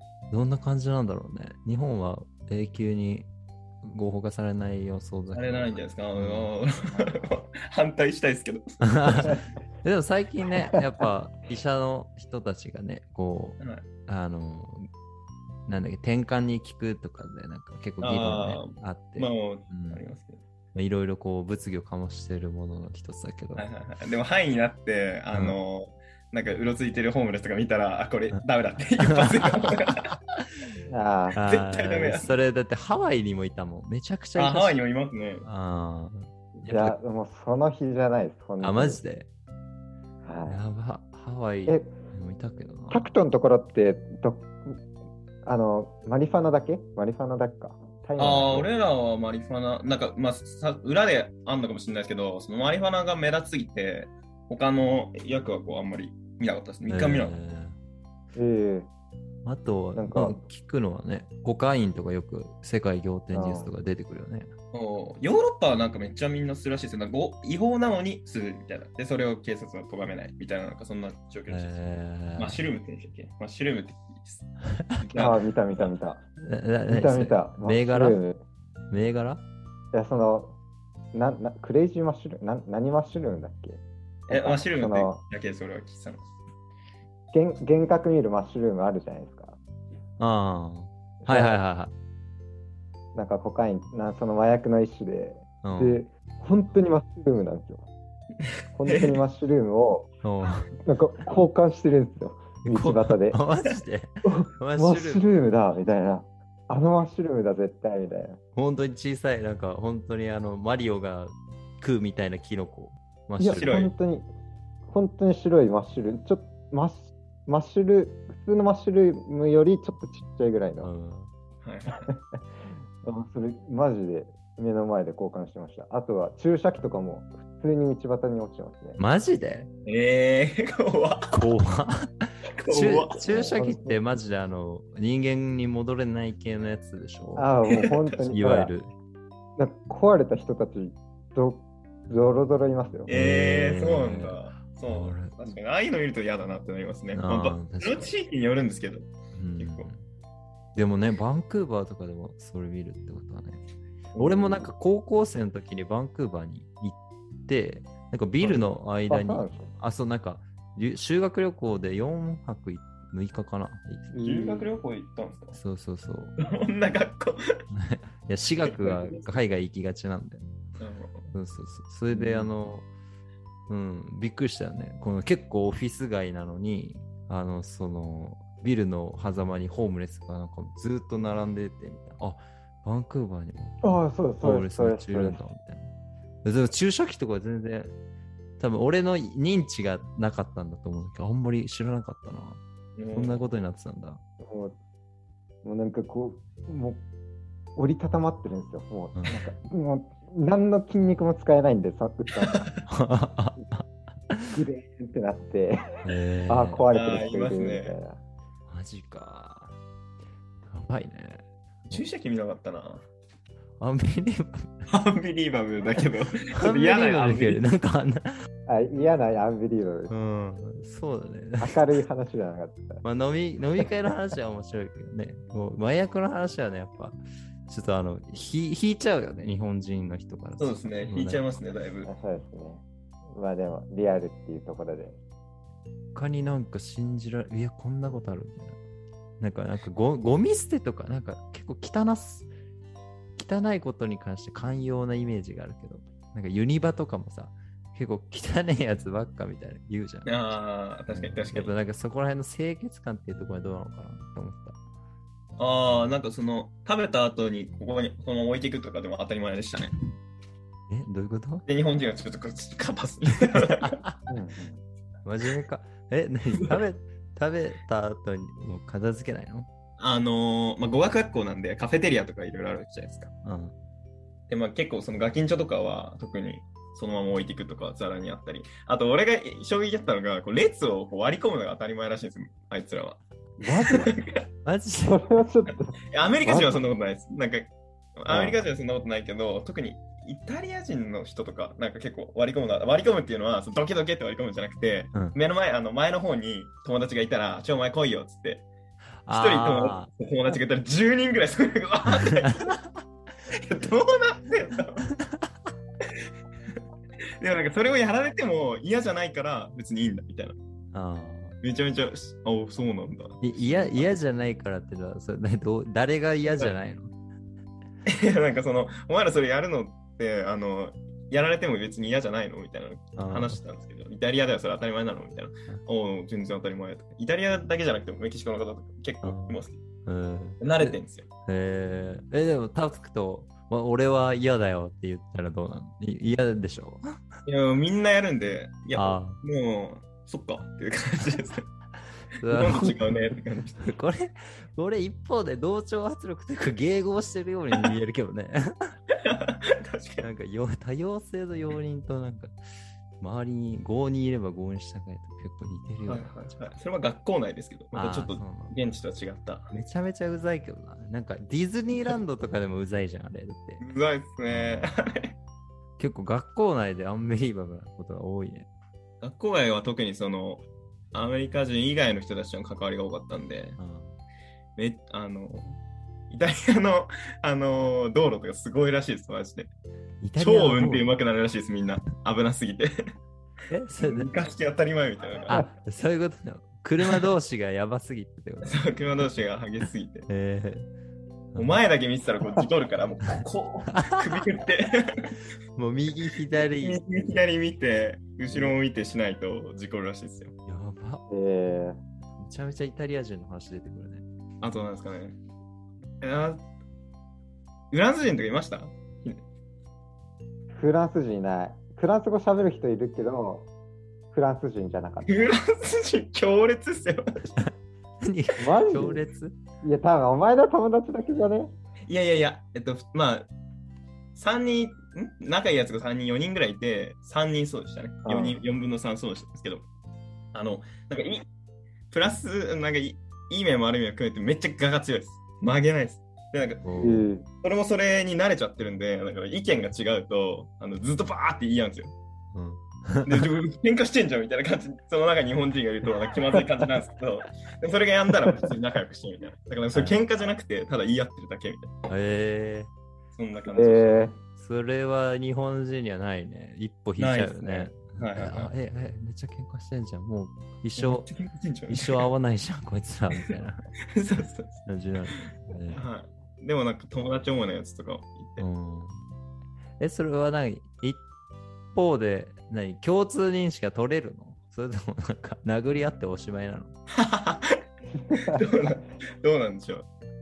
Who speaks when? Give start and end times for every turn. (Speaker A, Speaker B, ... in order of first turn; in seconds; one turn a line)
Speaker A: 0.3-3.3
Speaker A: 3.8-6.5
Speaker B: 5.3-9.4
Speaker A: 8.8-14.9
Speaker B: 13.6-13.9
Speaker A: 15.7-20.0
Speaker B: 18.0-20.4
Speaker A: 20.7-23.6
Speaker B: 23.5-30.1
Speaker A: 25.3-25.6
Speaker A: 29.0-29.8
Speaker C: 30.9-31.4
Speaker A: 31.3-34.8
Speaker B: 31.4-32.3
Speaker B: 34.4-35.4
Speaker A: 35.4-37.0
Speaker C: 36.7-39.0
Speaker A: 38.6-39.3
Speaker C: 40.2-40.6
Speaker A: 40.5-43.1
Speaker C: 41.6-41.9
Speaker C: 42.9-44.8
Speaker C: 45.4-48.7
Speaker B: 48.2-57.4
Speaker A: 56.9-57.8
Speaker C: 58.3-58.9
Speaker A: 59.4-64.5
Speaker C: 59.9-60.4
Speaker C: 63.3-63.7
Speaker B: 64.7-71.8
Speaker A: 71.5-72.6
Speaker B: 72.4-74.5
Speaker B: 75.0-75.9
Speaker C: 75.2-76.2
Speaker A: 76.4-78.2
Speaker C: 76.9-78.4
Speaker A: 78.9-79.4
Speaker C: 79.9-80.6
Speaker C: 81.1-85.2
Speaker B: 84.3-86.2
Speaker C: 87.3-89.6
Speaker A: 90.2-91.9
Speaker C: 91.2-91.6
Speaker C: 93.1-97.9
Speaker A: 95.6-96.0
Speaker C: 98.7-100.1
Speaker B: 98.8-99.2
Speaker A: 100.2-100.7
Speaker C: 100.8-103.4
Speaker A: 102.6-105.3
Speaker C: 104.2-108.4
Speaker A: 108.5-113.8
Speaker C: 113.4-114.3
Speaker B: 113.5-113.9
Speaker C: 114.9-120.9
Speaker A: 120.8-121.3
Speaker B: 121.6-122.1
Speaker C: 122.1-122.4
Speaker C: 123.0-129.0
Speaker A: 129.0-129.7
Speaker B: 129.8-131.4
Speaker A: 131.3-137.5
Speaker B: 132.6-133.3
Speaker C: 133.2-134.0
Speaker C: 137.4-138.7
Speaker B: 137.7-138.0
Speaker A: 138.3-138.9
Speaker C: 139.6-143.1
Speaker B: 143.1-149.9
Speaker A: 143.1-145.5
Speaker A: 147.1-148.1
Speaker A: 149.3-150.0
Speaker A: 150.8-153.6
Speaker B: 154.1-154.7
Speaker A: 154.2-164.2
Speaker C: 159.1-159.7
Speaker C: 164.1-164.7
Speaker B: 164.2-165.6
Speaker A: 165.5-166.3
Speaker B: 166.4-167.6
Speaker A: 167.7-170.4
Speaker B: 168.6-169.3
Speaker B: 170.8-171.3
Speaker A: 171.3-172.9
Speaker C: 172.1-172.5
Speaker A: 173.7-183.9
Speaker C: 183.8-185.4
Speaker A: 184.4-185.9
Speaker A: 186.4-187.9
Speaker A: 188.6-192.6
Speaker B: 192.9-193.4
Speaker A: 193.1-194.2
Speaker C: 194.4-194.8
Speaker C: 195.6-197.0
Speaker C: 197.8-202.7
Speaker A: 199.2-199.5
Speaker A: 202.9-204.6
Speaker C: 204.5-208.2
Speaker A: 206.0-206.8
Speaker B: 206.9-207.9
Speaker A: 208.7-209.7
Speaker A: 210.7-212.0
Speaker B: 211.9-213.1
Speaker A: 213.8-214.9
Speaker B: 214.9-217.6
Speaker A: 216.5-218.4
Speaker C: 218.7-220.1
Speaker A: 220.1-222.0
Speaker C: 221.6-223.0
Speaker A: 223.0-231.4
Speaker B: 230.6-232.1
Speaker C: 232.1-235.2
Speaker A: 236.1-238.8
Speaker A: 239.4-242.5
Speaker A: 243.3-250.5
Speaker B: 250.2-251.7
Speaker A: 251.1-254.8
Speaker B: 255.6-259.9
Speaker A: 260.9-261.6
Speaker B: 261.7-264.0
Speaker A: 263.5-264.1
Speaker C: 264.3-264.8
Speaker A: 265.2-269.7
Speaker B: 270.0-273.3
Speaker A: 273.4-273.7
Speaker B: 274.5-284.4
Speaker C: 283.6-284.1
Speaker A: 284.6-285.3
Speaker C: 285.1-286.7
Speaker B: 286.1-298.6
Speaker C: 288.3-288.6
Speaker A: 299.2-300.1
Speaker B: 299.3-302.8
Speaker A: 302.0-303.0
Speaker B: 303.5-305.0
Speaker B: 307.4-310.6
Speaker A: 310.9-311.6
Speaker B: 311.6-314.1
Speaker A: 313.4-317.1
Speaker B: 316.4-316.7
Speaker B: 318.1-329.8
Speaker A: 323.1-323.6
Speaker A: 329.2-337.1
Speaker B: 330.6-331.3
Speaker B: 337.4-341.7
Speaker A: 338.9-339.4
Speaker A: 342.4-343.0
Speaker B: 342.4-343.9
Speaker A: 343.8-348.9
Speaker B: 349.1-350.3
Speaker A: 350.2-352.5
Speaker A: 353.2-356.5
Speaker B: 356.0-359.7
Speaker A: 357.9-358.7
Speaker A: 359.7-363.9
Speaker B: 363.8-365.4
Speaker A: 364.5-364.9
Speaker A: 366.0-368.7
Speaker B: 369.2-373.8
Speaker A: 373.8-374.2
Speaker B: 374.8-375.8
Speaker B: 376.3-379.7
Speaker A: 380.2-381.1
Speaker B: 380.4-382.9
Speaker A: 383.7-384.3
Speaker B: 384.0-385.6
Speaker A: 385.5-388.8
Speaker B: 388.6-390.3
Speaker A: 390.3-390.9
Speaker A: 391.5-391.8
Speaker B: 391.6-395.3
Speaker A: 393.9-394.4
Speaker A: 395.8-397.0
Speaker B: 396.6-400.5
Speaker A: 398.5-398.8
Speaker A: 400.6-401.2
Speaker C: 401.3-402.0
Speaker A: 402.4-404.2
Speaker B: 404.6-405.4
Speaker B: 406.2-406.6
Speaker B: 407.9-409.4
Speaker C: 410.8-413.7
Speaker C: 414.3-415.5
Speaker B: 415.2-417.3
Speaker A: 418.2-419.6
Speaker C: 418.6-419.2
Speaker C: 419.8-421.7
Speaker B: 422.1-423.5
Speaker B: 424.3-429.9
Speaker C: 428.2-428.6
Speaker B: 430.5-431.4
Speaker B: 432.1-436.8
Speaker A: 436.8-437.3
Speaker C: 437.0-437.4
Speaker B: 437.6-442.1
Speaker A: 442.5-443.5
Speaker B: 443.2-451.9
Speaker A: 449.9-450.2
Speaker A: 452.1-452.9
Speaker B: 453.3-454.3
Speaker C: 453.7-454.4
Speaker A: 454.5-461.3
Speaker B: 457.2-458.7
Speaker B: 461.0-462.3
Speaker A: 461.9-463.9
Speaker B: 464.1-464.8
Speaker A: 464.9-466.0
Speaker B: 465.9-468.6
Speaker A: 468.6-469.2
Speaker A: 470.0-471.2
Speaker A: 471.9-476.9
Speaker B: 477.1-480.1
Speaker C: 478.3-478.6